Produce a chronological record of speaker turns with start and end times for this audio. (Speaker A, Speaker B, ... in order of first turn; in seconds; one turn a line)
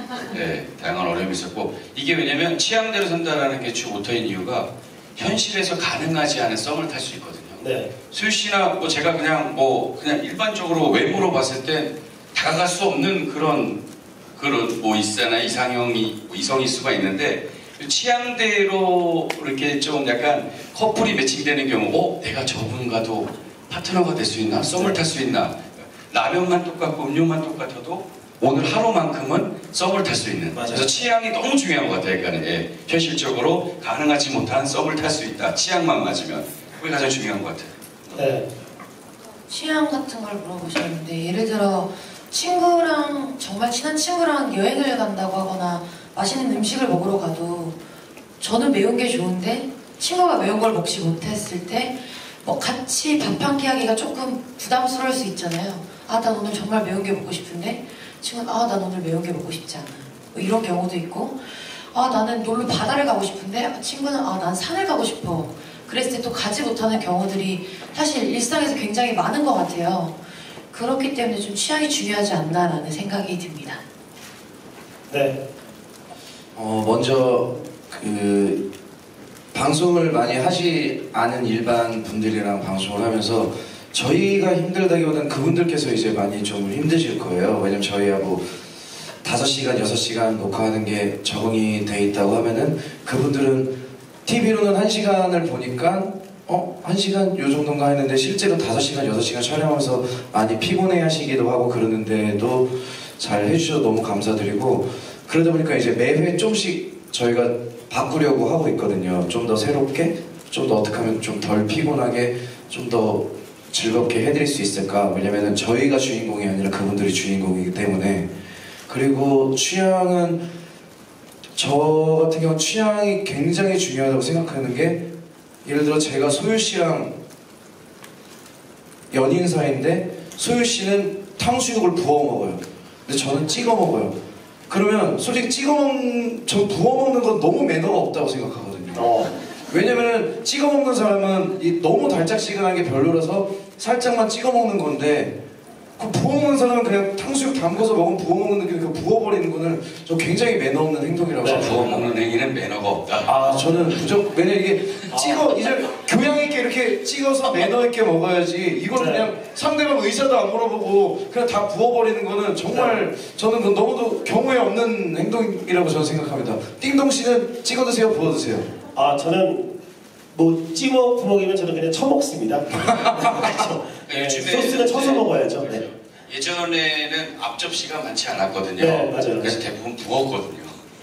Speaker A: 0.3-13.8
Speaker B: 7.6-7.9
Speaker A: 14.3-38.2
Speaker B: 24.7-25.0
Speaker B: 30.5-30.9
Speaker B: 38.2-38.5
Speaker C: 39.5-47.8
Speaker C: 48.4-70.2
Speaker C: 70.7-73.8
Speaker B: 75.1-75.4
Speaker D: 76.5-78.6
Speaker D: 79.5-88.5
Speaker D: 89.2-93.7
Speaker D: 94.2-118.3
Speaker D: 118.9-120.4
Speaker D: 121.5-125.0
Speaker D: 125.6-127.1
Speaker D: 129.1-134.2
Speaker D: 134.7-139.1
Speaker B: 138.9-139.3
Speaker D: 139.7-145.3
Speaker D: 146.0-151.9
Speaker B: 151.4-151.8
Speaker A: 151.5-153.3
Speaker D: 153.3-168.7
Speaker B: 155.1-155.4
Speaker B: 158.9-159.3
Speaker B: 162.7-163.0
Speaker B: 168.9-169.8
Speaker B: 170.3-175.8
Speaker D: 172.8-173.4
Speaker A: 174.0-180.7
Speaker B: 178.8-179.6